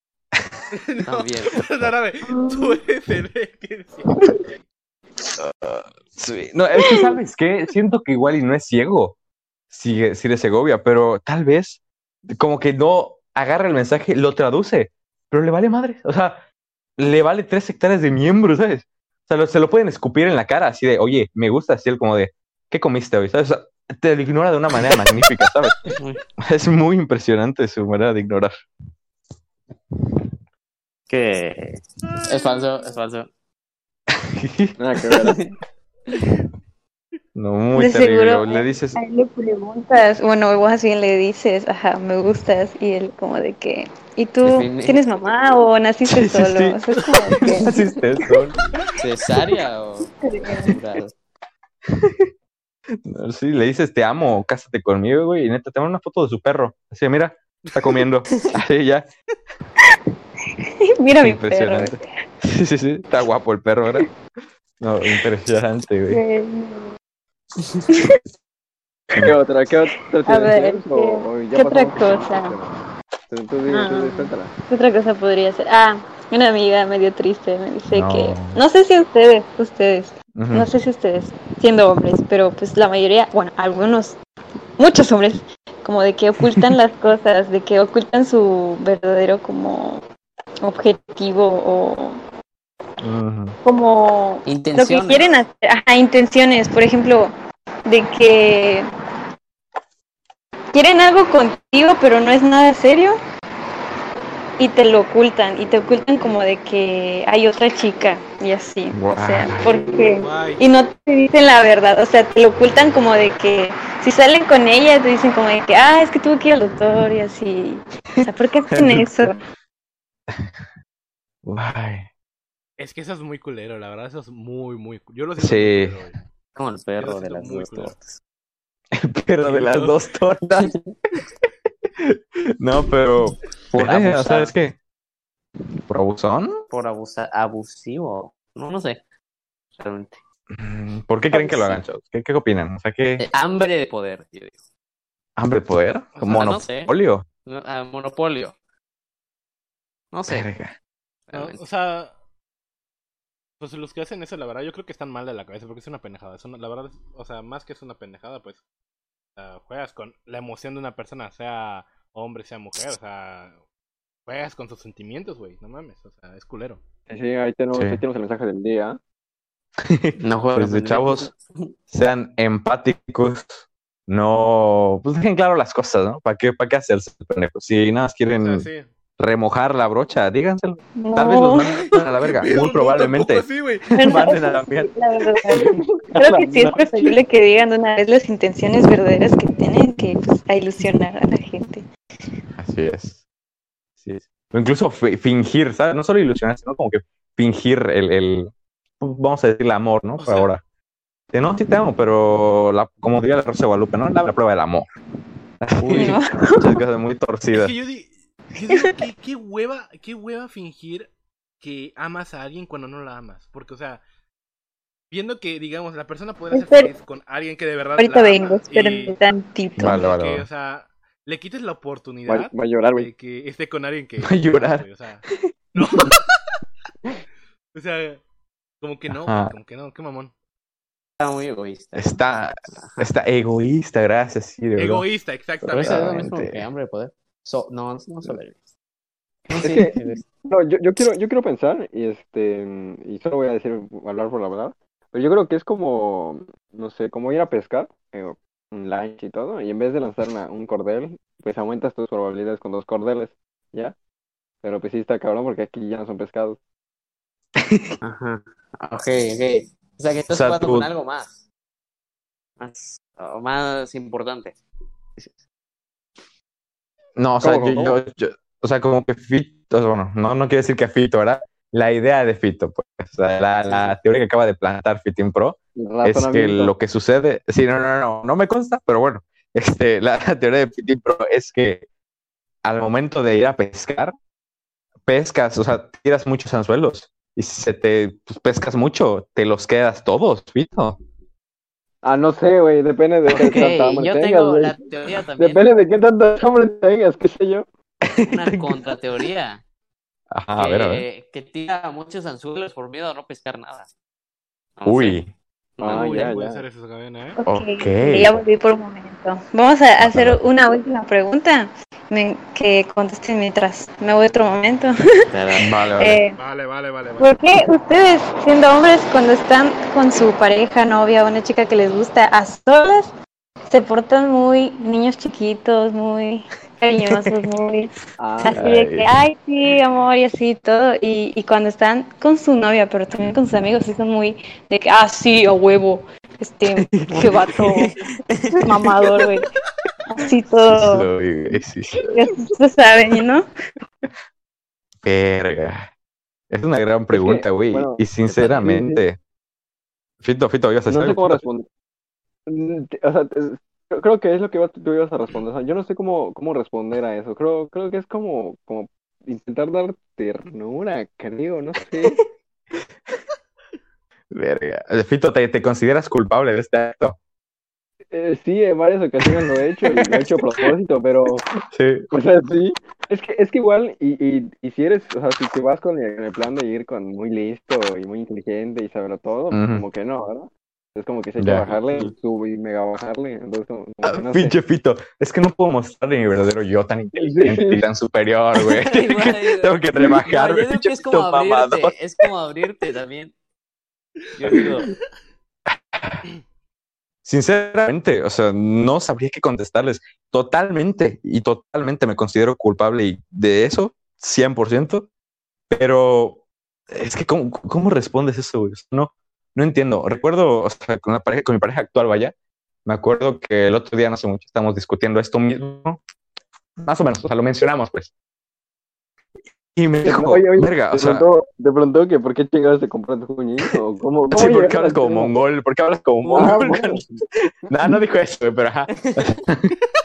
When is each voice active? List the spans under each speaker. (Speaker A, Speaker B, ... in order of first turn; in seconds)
Speaker A: 0.7-4.2, 32.0-32.8, 57.6-58.0, 110.0-110.6, 122.8-126.2, 127.0-128.0, 129.4-130.0, 146.1-146.4, 151.3-152.1, 153.6-158.6, 159.4-163.6, 164.3-166.8, 178.4-178.9, 182.2-184.0, 200.2-200.5, 207.5-211.1, 211.6-214.0, 215.1-219.2, 219.8-226.4, 227.7-228.2, 228.8-230.3, 234.8-236.2, 305.8-307.4, 316.4-317.3
Speaker B: 1.0-1.6, 25.9-26.2, 31.1-33.3, 35.2-35.5, 44.4-45.0, 49.0-50.1, 50.6-51.1, 94.5-95.3, 126.5-128.2, 130.6-130.9, 133.7-134.5, 136.7-139.0, 139.8-140.2, 141.3-141.8, 143.2-144.6, 146.2-146.9, 147.4-148.6, 150.1-150.5, 151.3-151.6, 170.2-171.7, 205.8-206.1, 231.2-232.2, 232.8-233.1, 235.6-238.6, 239.5-240.2, 258.0-261.4, 262.6-264.6, 273.7-273.9, 293.3-295.6, 298.3-299.6, 300.6-303.9, 304.8-305.2, 305.8-306.3, 315.3-315.6, 337.2-338.8, 388.6-393.3, 394.3-394.9, 428.9-429.4
Speaker C: 2.3-2.8, 6.8-7.2, 37.7-48.0, 50.2-50.8, 60.6-62.0, 66.1-66.9, 67.9-68.2, 70.2-72.5, 73.7-84.2, 84.8-90.0, 90.6-92.2, 93.6-97.3, 97.9-98.9, 100.7-103.2, 104.6-119.4, 181.0-181.9, 183.9-191.9, 205.9-206.8, 216.5-216.9, 218.0-220.1, 307.4-315.2, 315.9-316.4, 317.2-323.1, 323.7-337.9, 338.5-339.5, 340.1-341.1, 342.0-343.5
Speaker D: 5.4-9.2, 9.7-16.4, 17.0-28.6, 34.1-35.2, 37.3-39.0, 46.1-48.6, 51.9-52.3, 53.0-59.1, 61.2-64.1, 64.8-66.2, 77.9-78.6, 80.3-80.7, 93.0-93.6, 109.0-109.8, 118.7-119.3, 121.5-122.1, 125.4-126.0, 128.9-130.7, 132.0-134.8, 135.9-136.6, 140.5-143.2, 145.4-147.3, 150.3-150.7, 167.7-168.0, 169.8-171.3, 171.9-178.7, 179.2-184.9, 192.6-193.2, 194.0-200.6, 201.3-204.9, 205.6-207.8, 219.8-220.4, 224.2-224.8, 225.8-226.1, 229.1-229.6, 231.9-235.1, 235.8-236.7, 257.6-257.9, 260.3-260.9, 267.1-281.8, 282.6-284.1, 285.1-291.0, 298.1-298.8, 300.3-301.1, 304.8-305.3, 307.5-308.4, 310.0-310.4, 315.6-316.2, 328.5-329.1, 336.8-337.5, 340.7-342.2, 345.0-345.9, 346.5-349.2, 350.2-351.4, 364.3-367.2, 370.0-370.2, 371.7-372.1, 379.5-379.8, 381.4-382.1, 384.0-391.9, 395.7-396.2, 397.2-405.1, 405.7-412.3, 412.9-416.0, 416.8-418.1, 419.8-421.3, 424.3-427.1, 427.7-429.7
Speaker E: 34.8-35.4, 69.1-72.7, 73.3-74.5, 167.1-169.0, 185.5-187.2, 222.3-223.1, 239.6-253.9, 254.6-256.6, 267.4-268.0, 275.8-276.7, 292.0-294.8, 295.4-297.6, 305.8-306.6, 328.2-328.7, 347.1-349.0, 350.9-351.6, 352.5-362.2, 368.1-371.4, 372.1-384.6, 387.1-387.8, 420.0-425.3, 426.3-427.1